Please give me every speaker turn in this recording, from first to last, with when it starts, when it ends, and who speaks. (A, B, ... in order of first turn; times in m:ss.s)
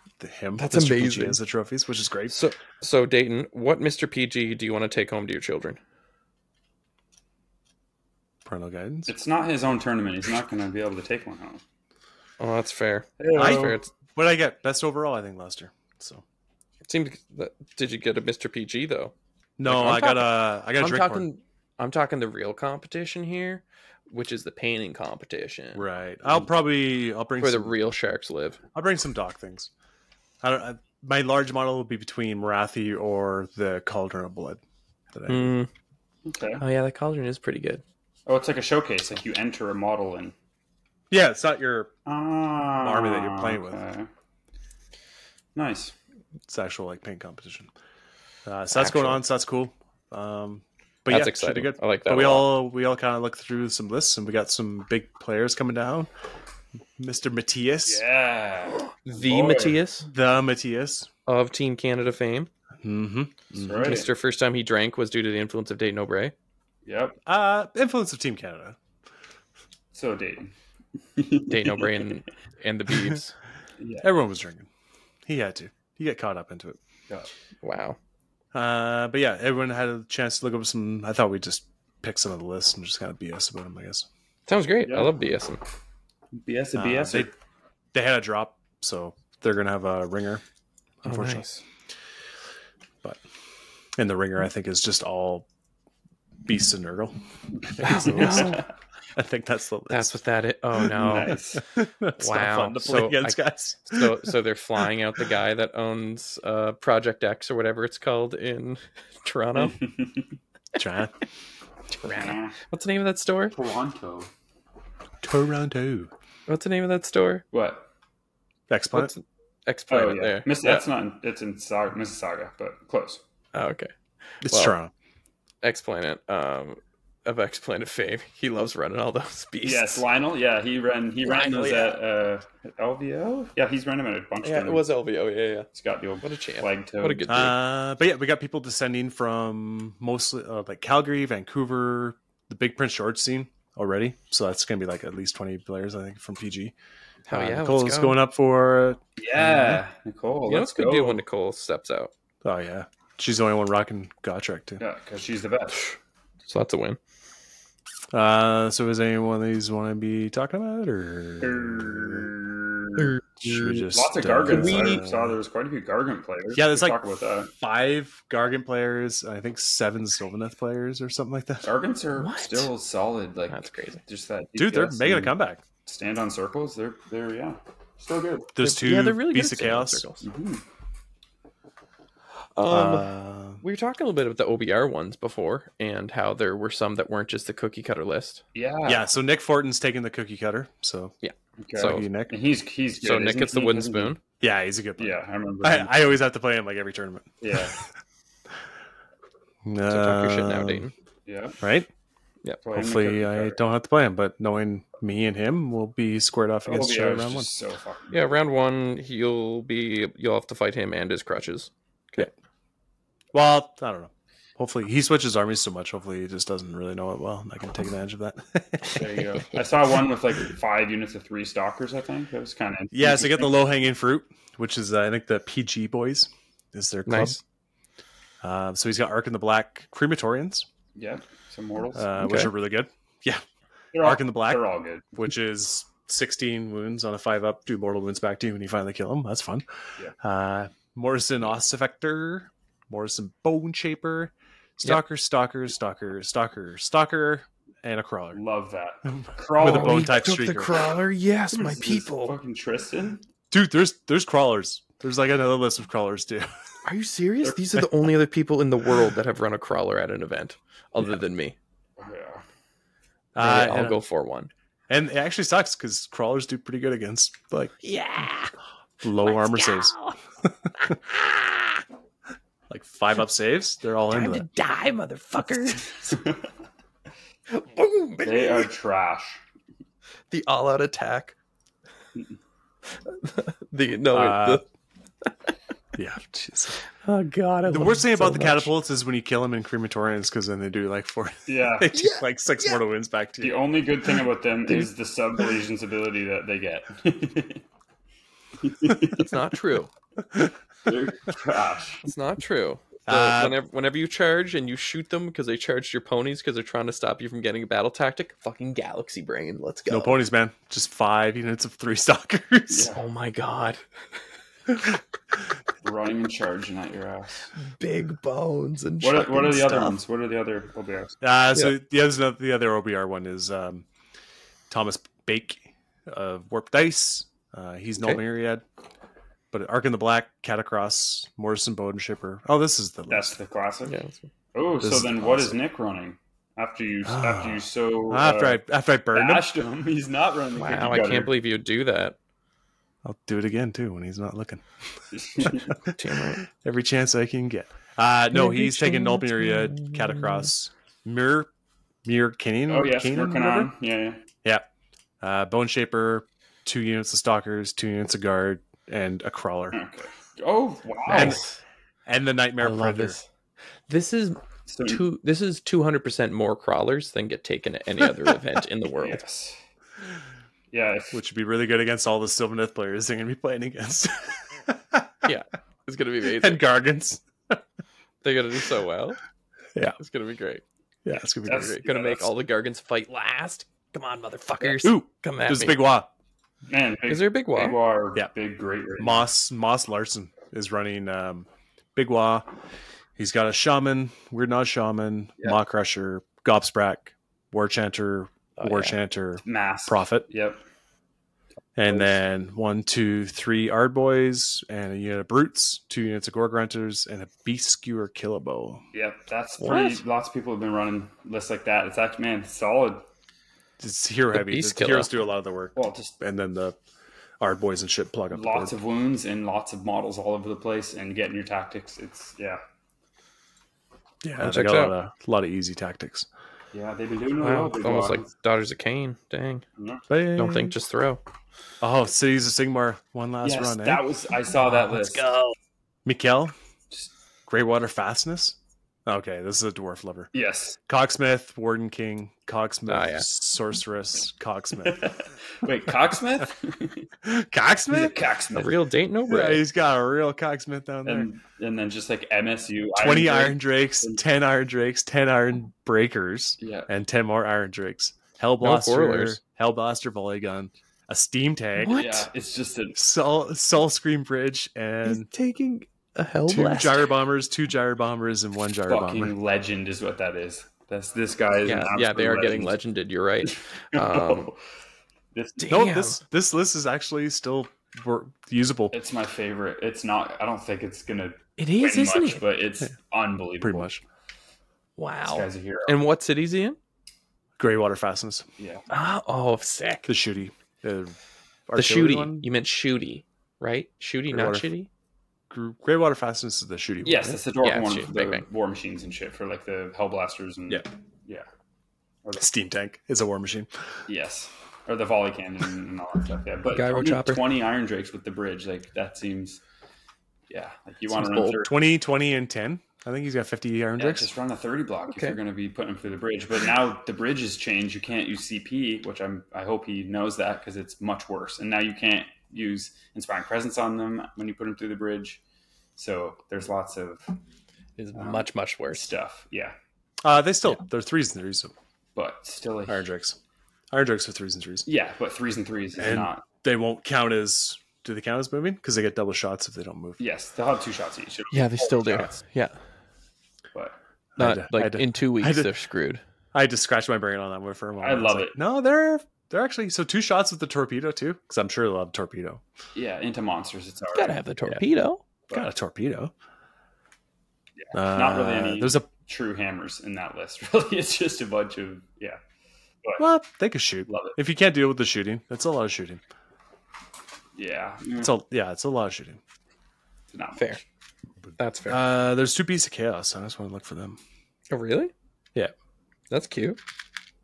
0:00.2-0:02.4 A
0:00.6-0:01.4 B
0:02.3-0:05.8 B
0:08.4-0:09.1 A
0:09.1-0:11.6 C
0:12.4-0:13.9 B
0:13.2-0:13.8 C
0:13.4-0:16.2 A
0:16.9-0:19.1 B
0:19.6-0:21.3 A
0:19.6-0:25.8 B
0:25.7-0:27.8 A
0:27.4-0:28.6 B
0:28.7-0:29.7 A
0:30.4-0:34.6 A
0:35.1-0:35.6 A
0:35.3-0:35.7 B
0:36.2-0:36.6 C
0:36.6-0:37.8 B
0:38.3-0:40.4 C
0:41.1-0:41.9 A
0:42.1-0:44.1 C
0:42.8-0:43.8 A
0:45.6-0:46.0 C
0:46.5-0:47.7 A
0:48.4-0:56.1 A
0:48.7-0:49.2 B
0:51.1-0:52.6 B
0:57.0-0:58.0 A
0:57.9-0:59.8 C
0:59.0-1:00.1 B
1:00.1-1:01.1 A
1:01.3-1:02.5 B
1:02.8-1:04.0 A
1:03.6-1:04.1 C
1:03.8-1:06.3 B
1:06.8-1:07.2 C
1:07.3-1:08.8 A
1:09.9-1:10.5 C
1:11.2-1:12.1 C
1:11.5-1:13.4 B
1:13.8-1:14.1 C
1:14.0-1:14.7 A
1:15.3-1:16.8 A
1:17.6-1:18.0 B
1:18.5-1:24.1 A
1:24.5-1:25.6 B
1:24.9-1:25.1 C
1:26.3-1:27.3 C
1:26.8-1:27.3 A
1:27.9-1:30.4 A
1:31.0-1:31.5 A
1:31.0-1:31.6 B
1:34.0-1:35.5 A
1:36.5-1:37.2 A
1:37.6-1:38.7 C
1:37.8-1:38.6 A
1:37.8-1:38.7 B
1:39.2-1:40.2 A
1:39.9-1:41.4 B
1:40.8-1:44.8 A
1:40.9-1:41.6 C
1:42.2-1:49.8 B
1:49.6-1:50.3 C
1:50.8-1:51.1 A
1:52.0-1:53.6 B
1:52.1-1:52.6 C
1:53.5-1:54.3 C
1:55.2-1:56.1 A
1:56.5-1:57.4 B
1:57.5-1:57.9 C
1:58.7-1:59.1 A
1:58.9-2:00.9 B
1:59.9-2:03.2 C
2:03.5-2:04.8 B
2:04.4-2:04.9 A
2:05.6-2:10.0 B
2:09.6-2:14.9 C
2:11.2-2:12.0 B
2:14.4-2:15.7 B
2:15.7-2:17.4 C
2:16.2-2:17.6 B
2:17.3-2:26.8 A
2:27.3-2:28.2 B
2:27.3-2:29.8 A
2:29.2-2:31.2 C
2:30.5-2:32.1 B
2:32.4-2:34.8 A
2:34.8-2:35.9 C
2:36.5-2:37.0 B
2:38.1-2:42.3 A
2:41.4-2:43.1 C
2:43.0-2:43.8 B
2:43.4-2:45.4 A
2:43.9-2:47.5 C
2:44.5-2:45.0 B
2:46.5-2:47.0 A
2:47.6-2:51.7 A
2:51.6-2:55.4 C
2:52.2-2:52.7 B
2:53.5-2:54.0 B
2:54.6-2:55.6 A
2:55.9-2:58.5 C
2:58.6-3:00.1 A
2:58.6-3:00.2 B
3:00.2-3:00.6 C
3:02.6-3:08.4 B
3:02.7-3:03.6 A
3:08.6-3:09.1 C
3:08.9-3:11.2 A
3:11.2-3:12.1 B
3:11.6-3:14.2 C
3:11.8-3:12.3 A
3:13.0-3:14.2 B
3:14.4-3:17.3 A
3:15.0-3:16.1 C
3:17.4-3:17.8 C
3:19.6-3:20.9 A
3:19.9-3:20.9 B
3:21.3-3:21.6 C
3:21.6-3:21.9 A
3:22.6-3:23.6 C
3:22.7-3:27.5 A
3:26.7-3:28.3 C
3:28.1-3:32.3 B
3:33.3-3:39.1 A
3:38.9-3:43.7 C
3:42.9-3:47.4 A
3:47.1-3:47.4 B
3:48.4-3:50.7 A
3:51.0-3:52.1 C
3:51.9-3:53.4 A
3:52.2-3:52.5 B
3:53.9-3:55.1 C
3:54.0-3:59.7 A
4:00.2-4:08.4 A
4:08.3-4:10.2 C
4:09.1-4:10.8 A
4:09.6-4:12.3 B
4:11.5-4:13.2 C
4:13.5-4:16.5 A
4:16.8-4:21.6 B
4:22.0-4:22.4 C
4:23.4-4:24.0 A
4:23.4-4:24.5 B
4:24.9-4:27.8 A
4:27.8-4:28.5 B
4:29.0-4:30.0 A
4:29.2-4:30.2 B
4:30.5-4:30.9 A
4:30.8-4:31.8 B
4:32.7-4:34.5 A
4:34.1-4:35.9 B
4:36.0-4:36.4 C
4:37.5-4:38.7 B
4:38.2-4:39.4 C
4:40.3-4:41.4 B
4:43.0-4:44.6 B
4:44.1-4:44.6 A
4:45.2-4:45.5 B
4:46.0-4:46.8 A
4:46.9-4:48.7 B
4:47.7-4:53.7 A
4:51.5-4:51.9 C
4:51.9-4:52.8 B
4:53.4-4:57.6 C
4:58.6-4:59.4 C
4:59.1-4:59.9 B
5:00.8-5:02.0 C
5:02.0-5:10.2 B
5:03.1-5:03.6 A
5:09.8-5:12.9 A
5:12.7-5:13.0 C
5:12.9-5:13.8 B
5:15.8-5:17.5 C
5:17.7-5:20.0 B
5:19.0-5:21.2 C
5:21.2-5:23.8 A
5:24.7-5:28.6 A
5:29.5-5:33.4 A
5:33.1-5:34.0 C
5:33.9-5:34.3 B
5:34.5-5:38.6 C
5:34.8-5:35.6 A
5:37.0-5:39.5 A
5:39.1-5:41.3 C
5:40.6-5:42.2 B
5:43.0-5:44.6 A
5:45.1-5:45.7 C
5:45.4-5:51.5 A
5:45.9-5:46.5 B
5:48.3-5:50.5 B
5:52.0-5:53.7 A
5:52.7-5:54.2 C
5:55.2-5:59.8 A
5:59.7-6:01.4 C
6:01.1-6:01.6 B
6:01.1-6:01.4 A
6:02.1-6:03.2 A
6:02.6-6:03.2 B
6:03.9-6:09.2 B
6:04.7-6:05.0 C
6:09.0-6:09.6 C
6:10.7-6:11.2 C
6:11.1-6:15.3 A
6:15.2-6:16.6 B
6:16.2-6:17.6 A
6:18.2-6:19.2 B
6:20.0-6:20.6 B
6:21.0-6:21.8 A
6:21.4-6:25.9 B
6:21.5-6:22.3 C
6:24.8-6:26.1 A
6:26.7-6:29.3 C
6:27.1-6:27.8 B
6:29.0-6:32.5 A
6:33.2-6:40.3 A
6:38.6-6:39.0 B
6:39.4-6:40.6 C
6:41.8-6:48.8 A
6:48.9-6:53.0 C
6:49.6-6:50.0 B
6:53.8-6:56.8 A
6:54.3-6:55.2 B
6:55.8-6:56.2 C
6:57.4-6:58.8 A
6:58.3-7:02.6 C
7:04.2-7:06.3 A
7:04.4-7:05.0 B
7:06.7-7:08.3 C
7:07.4-7:09.6 B
7:09.8-7:10.0 C
7:10.1-7:10.8 A
7:10.4-7:11.2 B
7:11.8-7:14.0 A
7:13.4-7:15.3 C
7:14.7-7:15.5 B
7:16.0-7:16.6 A
7:17.5-7:20.3 A
7:20.3-7:20.8 C
7:20.9-7:25.1 A
7:22.9-7:23.3 B
7:24.8-7:27.1 C
7:27.2-7:28.2 A
7:27.9-7:28.8 C
7:28.6-7:29.6 B
7:29.3-7:31.3 A
7:31.0-7:34.2 C
7:33.0-7:42.0 A
7:36.6-7:36.9 C
7:38.6-7:39.4 B
7:41.8-7:42.3 B
7:42.0-7:43.0 C
7:43.0-7:45.3 A
7:45.0-7:47.0 B
7:46.5-7:49.3 A
7:48.9-7:52.8 C
7:51.6-7:54.5 B
7:53.4-7:54.6 C
7:55.3-7:55.8 C
7:55.6-7:56.2 B
7:55.7-7:59.0 A
7:58.9-8:03.9 C
8:01.6-8:02.4 B
8:03.6-8:04.0 A
8:05.0-8:06.8 B
8:05.2-8:06.0 C
8:07.6-8:08.5 A
8:08.6-8:08.9 C
8:08.9-8:10.1 B
8:10.1-8:11.2 A
8:11.7-8:12.5 A
8:11.8-8:14.9 B
8:14.3-8:14.7 A
8:15.5-8:17.4 A
8:17.0-8:21.5 C
8:17.6-8:18.5 B
8:22.4-8:23.7 A
8:24.1-8:29.6 C
8:26.7-8:27.4 B
8:30.5-8:31.8 C
8:31.1-8:31.6 B
8:31.6-8:34.3 A
8:34.0-8:45.4 C
8:35.1-8:35.4 B
8:46.0-8:47.3 C
8:48.0-8:49.1 B
8:48.2-8:49.8 C
8:50.2-8:51.7 A
8:52.2-8:53.1 C
8:52.9-8:53.4 A
8:53.9-8:54.9 A
8:54.8-8:56.4 C
8:56.0-9:00.2 A
9:00.2-9:02.4 C
9:01.5-9:02.8 B
9:04.4-9:05.7 A
9:04.4-9:06.2 B
9:06.5-9:12.6 A
9:08.0-9:08.6 C
9:13.0-9:14.4 C
9:14.1-9:15.2 B
9:15.5-9:16.3 A
9:17.8-9:22.4 C
9:17.9-9:19.1 A
9:23.2-9:26.2 A
9:24.1-9:24.4 C
9:27.6-9:28.3 C
9:28.2-9:29.4 A
9:30.3-9:30.8 C
9:30.6-9:30.8 B
9:31.6-9:32.0 B
9:31.9-9:34.2 A
9:34.7-9:35.1 B
9:36.3-9:36.8 B